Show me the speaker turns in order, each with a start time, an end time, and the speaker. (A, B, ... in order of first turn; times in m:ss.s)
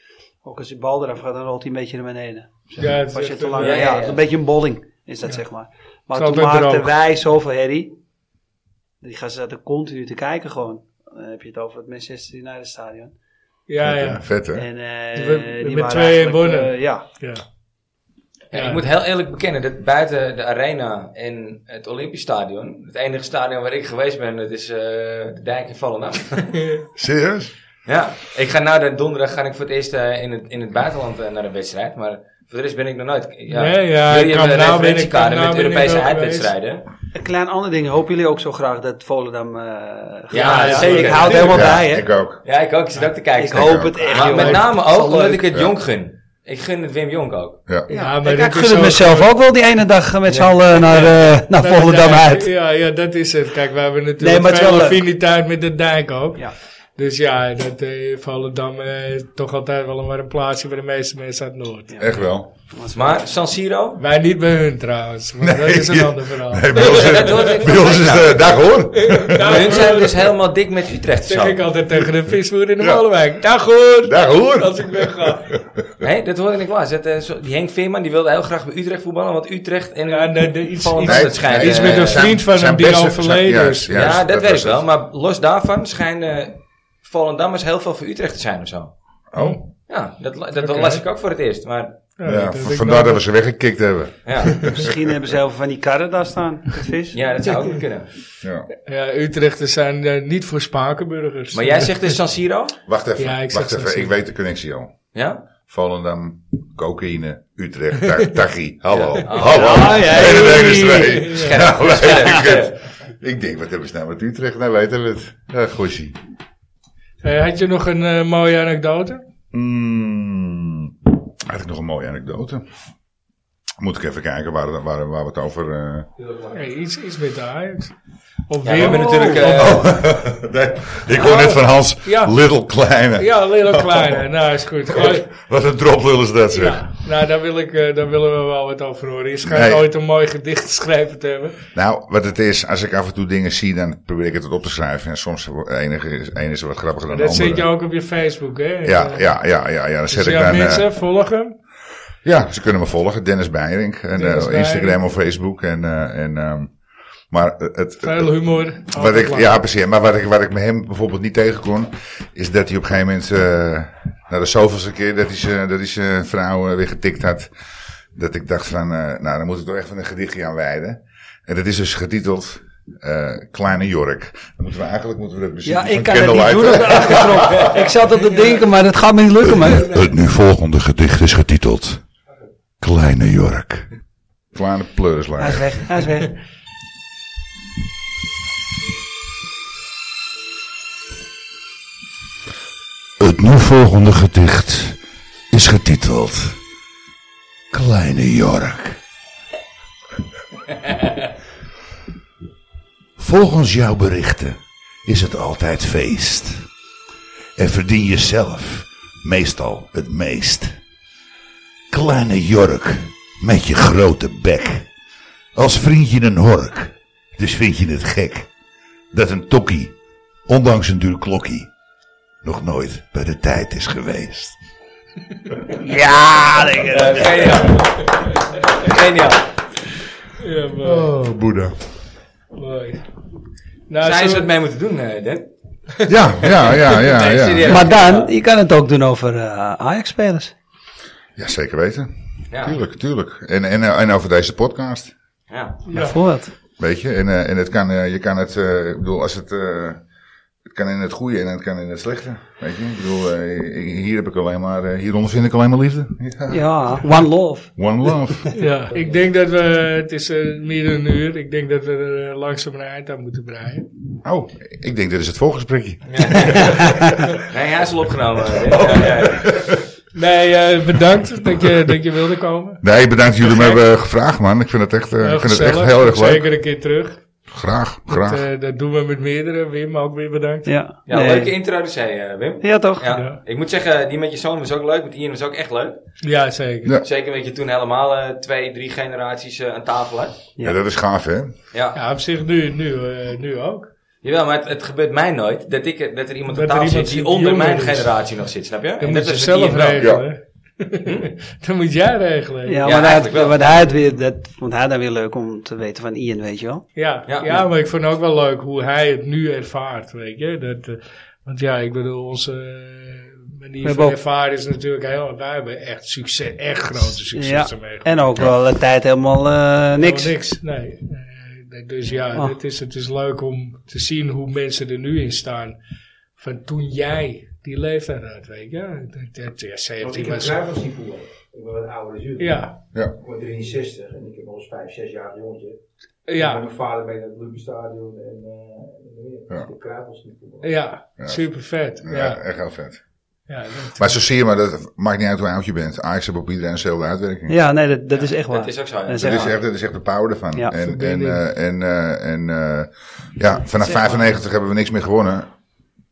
0:00.4-0:08.0 A
0:02.8-0:03.9 B
0:03.6-0:04.2 C
0:06.2-0:06.9 B
0:09.0-0:13.1 A
0:13.7-0:14.2 B
0:13.8-0:14.7 D
0:14.6-0:17.0 A
0:15.2-0:17.4 B
0:18.5-0:26.7 C
0:18.5-0:18.8 B
0:26.6-0:26.9 B
0:27.0-0:27.5 D
0:27.9-0:36.9 C
0:33.5-0:36.5 B
0:37.1-0:42.1 A
0:40.3-0:47.6 C
0:40.4-0:41.7 B
0:41.4-0:42.4 D
0:43.4-0:45.4 A
0:43.6-0:44.1 D
0:44.1-0:44.6 B
0:47.9-0:52.5 A
0:47.9-0:49.4 B
0:50.3-0:51.2 C
0:51.5-1:02.2 B
0:54.2-0:55.0 A
1:02.0-1:02.5 D
1:02.7-1:03.2 A
1:02.9-1:04.0 C
1:04.0-1:07.6 B
1:05.4-1:09.9 D
1:06.7-1:08.6 C
1:08.9-1:10.2 B
1:09.4-1:11.6 C
1:11.3-1:15.6 B
1:12.8-1:13.0 D
1:14.0-1:15.6 D
1:16.0-1:22.3 C
1:20.1-1:24.0 B
1:21.0-1:24.8 D
1:23.9-1:28.9 C
1:29.3-1:29.6 D
1:29.4-1:29.6 B
1:29.9-1:32.0 C
1:30.6-1:31.0 B
1:32.2-1:33.2 B
1:32.3-1:35.1 D
1:34.2-1:34.6 C
1:34.5-1:34.8 B
1:34.7-1:37.2 A
1:37.1-1:38.1 C
1:38.4-1:38.7 D
1:38.9-1:41.9 B
1:41.5-1:42.8 C
1:42.9-1:44.9 D
1:43.2-1:44.1 B
1:45.1-1:45.4 C
1:45.7-1:56.2 D
1:48.9-1:50.5 C
1:49.4-1:51.1 A
1:49.9-1:51.6 B
1:51.2-1:52.8 C
1:57.2-1:59.2 B
1:59.5-2:00.9 D
2:01.4-2:02.6 D
2:03.8-2:06.1 D
2:06.2-2:06.6 E
2:06.5-2:07.9 B
2:08.5-2:09.7 B
2:08.6-2:10.0 C
2:08.8-2:09.4 A
2:09.4-2:14.3 D
2:11.1-2:12.4 B
2:13.2-2:15.3 B
2:14.9-2:16.8 D
2:16.5-2:21.6 B
2:19.4-2:19.9 D
2:21.8-2:27.7 D
2:27.1-2:29.2 B
2:28.8-2:30.9 D
2:30.1-2:31.5 B
2:32.2-2:36.7 D
2:34.2-2:35.0 B
2:37.3-2:47.5 D
2:38.0-2:39.6 B
2:48.1-2:57.8 D
2:55.6-3:00.1 A
2:59.4-3:02.0 D
3:02.8-3:03.9 D
3:04.5-3:06.0 D
3:05.4-3:06.3 A
3:13.2-3:15.0 D
3:15.5-3:16.6 D
3:17.7-3:19.0 D
3:23.2-3:26.7 D
3:27.6-3:30.8 D
3:31.9-3:34.9 D
3:35.6-3:38.5 D
3:39.1-3:40.0 D
3:40.5-3:41.7 D
3:42.4-3:44.6 D
3:45.7-3:47.6 A
3:46.9-3:49.5 C
3:50.4-3:51.1 B
3:50.8-3:51.8 D
3:52.5-3:53.0 B
3:53.9-3:54.5 B
3:54.0-3:55.5 C
3:56.1-3:57.9 D
3:56.4-3:58.3 C
3:57.6-4:00.5 A
4:01.4-4:05.1 D
4:02.5-4:02.8 C
4:05.5-4:05.8 C
4:05.9-4:06.2 B
4:05.9-4:06.5 A
4:06.8-4:10.0 D
4:10.7-4:17.2 D
4:16.5-4:18.5 A
4:17.8-4:18.5 D
4:18.5-4:23.9 B
4:24.2-4:27.1 D
4:26.1-4:26.9 C
4:27.5-4:29.5 C
4:28.7-4:29.8 D
4:30.1-4:32.8 B
4:32.8-4:36.5 D
4:35.2-4:37.2 B
4:37.5-4:38.4 D
4:38.1-4:40.7 B
4:40.7-4:41.5 A
4:41.1-4:46.0 C
4:42.6-4:43.0 A
4:43.1-4:43.4 B
4:46.2-4:47.0 B
4:47.0-4:50.4 C
4:50.6-4:51.5 D
4:51.7-4:52.0 C
4:52.0-4:53.9 B
4:54.2-5:00.1 C
4:56.5-4:58.1 B
4:59.0-5:03.1 B
5:00.0-5:00.3 D
5:01.0-5:01.3 C
5:02.7-5:06.8 A
5:02.8-5:03.7 C
5:07.0-5:18.1 B
5:07.3-5:07.6 C
5:13.8-5:14.2 A
5:17.3-5:20.3 A
5:20.0-5:25.8 B
5:26.4-5:30.6 B
5:30.0-5:35.8 E
5:32.4-5:32.7 B
5:36.3-5:36.7 B
5:36.3-5:40.7 E
5:40.6-5:42.4 B
5:42.0-5:43.0 D
5:43.5-5:44.1 B
5:44.0-5:47.6 D
5:47.5-5:49.6 A
5:48.1-5:49.5 C
5:49.2-5:55.5 D
5:50.8-5:51.4 B